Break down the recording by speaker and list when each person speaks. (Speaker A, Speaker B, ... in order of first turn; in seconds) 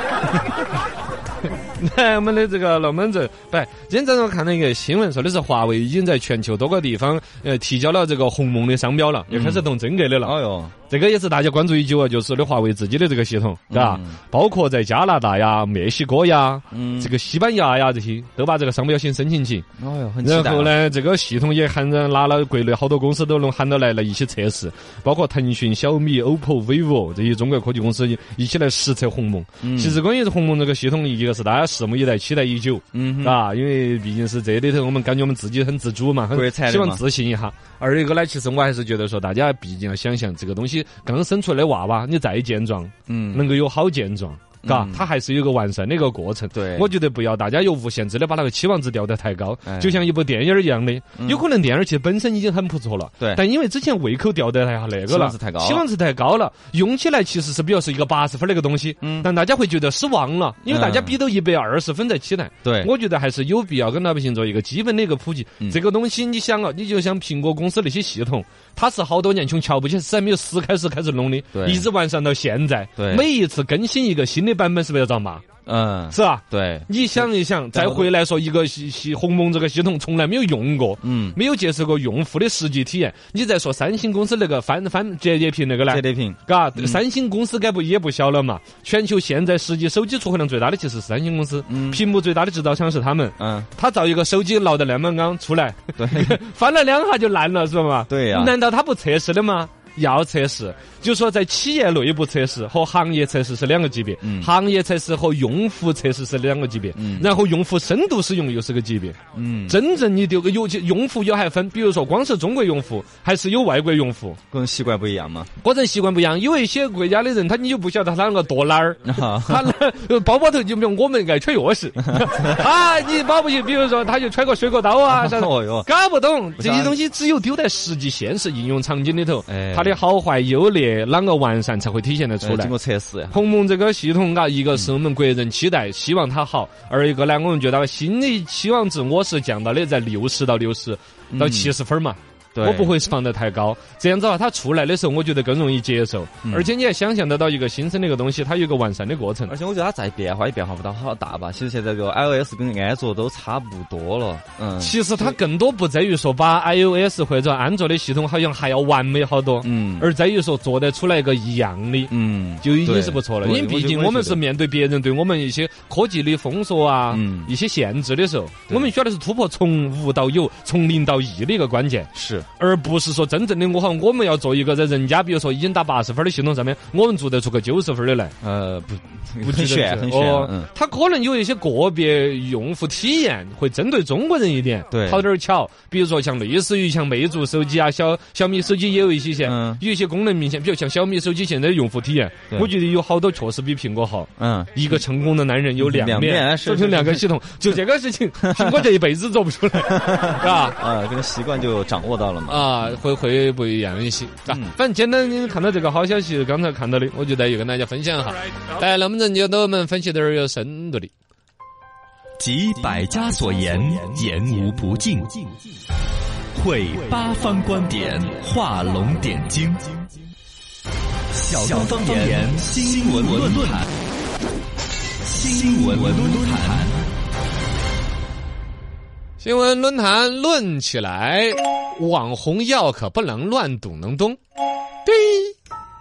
Speaker A: 1.8-10.3, 10.9-19.7, 20.2-75.5, 76.1-114.4, 115.6-132.7, 133.3-149.6, 154.8-178.3, 179.4-200.8, 202.5-211.1, 229.4-234.4, 235.1-235.5
Speaker B: 9.3-9.7, 10.2-10.7, 13.7-14.2, 16.7-17.1, 19.8-20.8, 29.6-30.0, 32.9-33.4, 36.3-37.0, 43.1-43.5, 44.6-45.1, 46.5-46.9, 49.7-50.1, 51.2-51.5, 55.1-55.8, 59.0-59.3, 60.7-61.2, 62.6-62.9, 71.5-71.9, 73.0-73.3, 75.7-78.1, 81.0-81.4, 85.9-87.0, 91.7-92.0, 93.4-93.7, 96.0-96.4, 98.1-98.5, 104.2-104.5, 107.0-107.4, 109.3-109.8, 114.5-115.5, 119.1-119.7, 125.1-125.9, 126.6-127.0, 129.5-130.0, 132.4-133.4, 141.3-141.7, 142.6-143.0, 146.4-146.7, 149.5-155.4, 159.6-160.1, 162.1-164.4, 167.1-167.5, 172.1-172.5, 178.4-180.7, 184.9-185.2, 189.4-189.8, 194.4-195.0, 195.8-197.2, 198.4-198.9, 199.9-202.8, 204.5-204.8, 221.6-222.5, 223.2-223.8, 225.5-226.8
Speaker C: 212.4-215.3, 216.6-219.9, 221.4-223.9, 225.3-227.0